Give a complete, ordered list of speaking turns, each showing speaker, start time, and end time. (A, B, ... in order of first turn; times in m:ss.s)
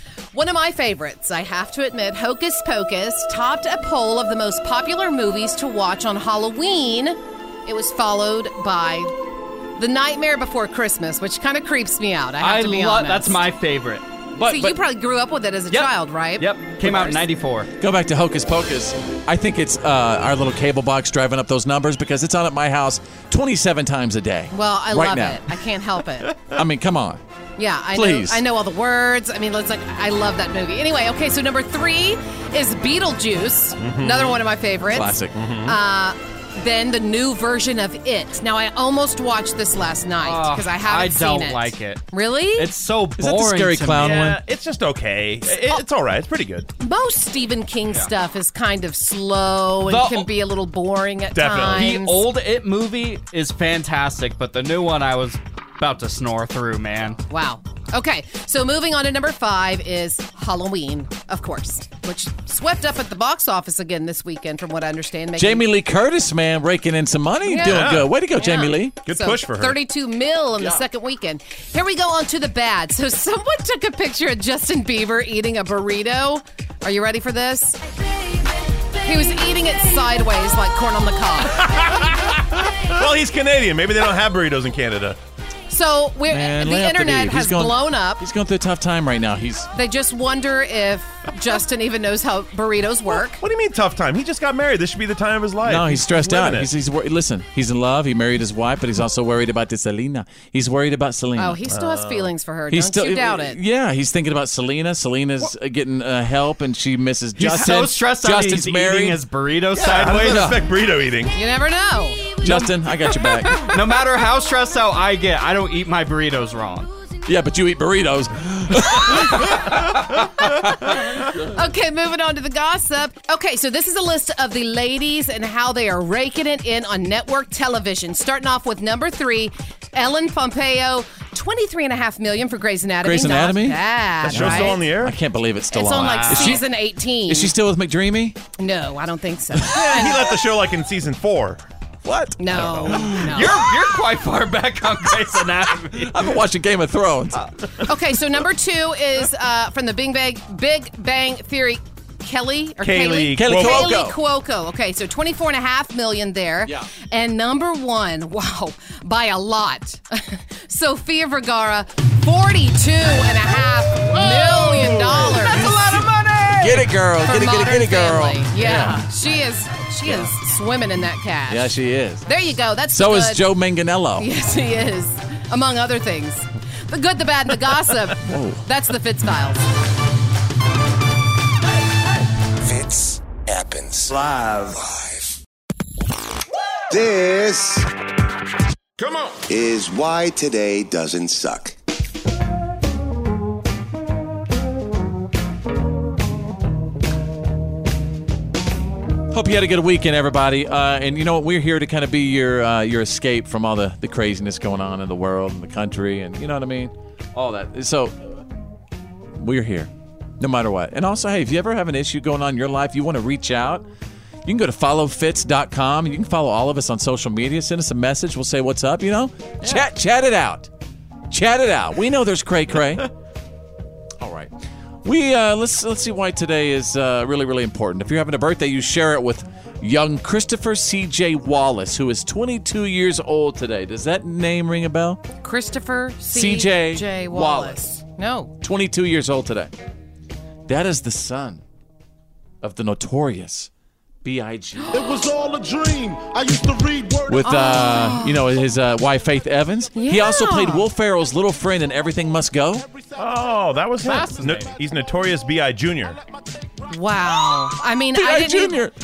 0:00.3-0:09.1 A
0:09.8-0:13.4 A
0:12.4-0:14.0 B
0:14.4-0:14.8 C
0:14.4-0:17.2 A
0:15.7-0:17.7 B
0:17.8-0:25.4 C
0:24.5-0:26.4 A
0:26.5-0:27.2 C
0:27.6-0:42.7 A
0:27.9-0:28.4 C
0:33.8-0:34.4 D
0:34.9-0:35.4 C
0:35.3-0:35.8 D
0:40.2-0:42.0 B
0:42.6-0:44.3 B
0:43.2-0:44.4 C
0:44.0-0:46.7 D
0:46.8-0:52.2 A
0:49.9-0:50.3 B
0:51.4-0:51.9 D
0:51.7-0:57.2 B
0:57.3-1:05.7 A
1:05.4-1:09.0 C
1:07.4-1:17.8 A
1:07.6-1:08.1 D
1:09.0-1:09.8 D
1:19.0-1:21.7 A
1:21.5-1:25.2 D
1:25.7-1:28.2 A
1:26.3-1:29.7 C
1:29.7-1:33.4 A
1:33.4-1:36.7 D
1:35.6-1:41.7 C
1:41.4-1:43.6 A
1:41.7-1:42.3 D
1:42.7-1:49.2 C
1:47.4-1:50.5 B
1:49.8-1:51.3 D
1:50.0-1:50.6 C
1:51.3-1:52.6 A
1:52.4-1:53.6 C
1:53.6-1:56.9 B
1:57.3-2:01.4 C
2:01.4-2:14.8 A
2:13.0-2:16.7 C
2:14.3-2:15.2 D
2:15.7-2:17.5 A
2:16.0-2:16.6 B
2:17.3-2:18.4 C
2:18.6-2:20.3 A
2:19.7-2:21.6 D
2:22.0-2:23.6 C
2:22.4-2:23.5 A
2:22.6-2:22.9 D
2:23.1-2:26.3 B
2:25.9-2:27.4 C
2:27.8-2:45.8 A
2:32.8-2:34.0 D
2:33.4-2:34.2 C
2:45.1-2:49.0 C
2:47.2-2:51.8 A
2:50.1-2:50.3 C
2:51.5-2:52.3 C
2:52.3-2:53.4 A
2:52.9-2:54.3 C
2:54.2-2:59.6 A
2:58.3-2:58.6 C
3:02.7-3:04.2 E
3:04.8-3:05.2 E
3:06.9-3:07.9 E
3:09.5-3:11.7 E
3:19.3-3:28.4 C
3:29.4-3:33.9 C
3:34.4-3:40.7 C
3:41.3-3:43.1 C
3:44.2-3:44.5 C
3:45.0-3:55.2 C
3:55.4-3:58.5 A
3:56.3-3:57.9 C
3:58.6-3:59.7 C
4:00.7-4:01.6 C
4:02.6-4:03.7 C
4:04.2-4:05.0 C
4:04.9-4:07.5 F
4:07.3-4:12.9 C
4:07.4-4:08.4 A
4:10.0-4:10.9 A
4:12.8-4:13.2 F
4:13.2-4:16.2 D
4:14.0-4:14.8 B
4:16.9-4:18.8 A
4:18.1-4:18.9 C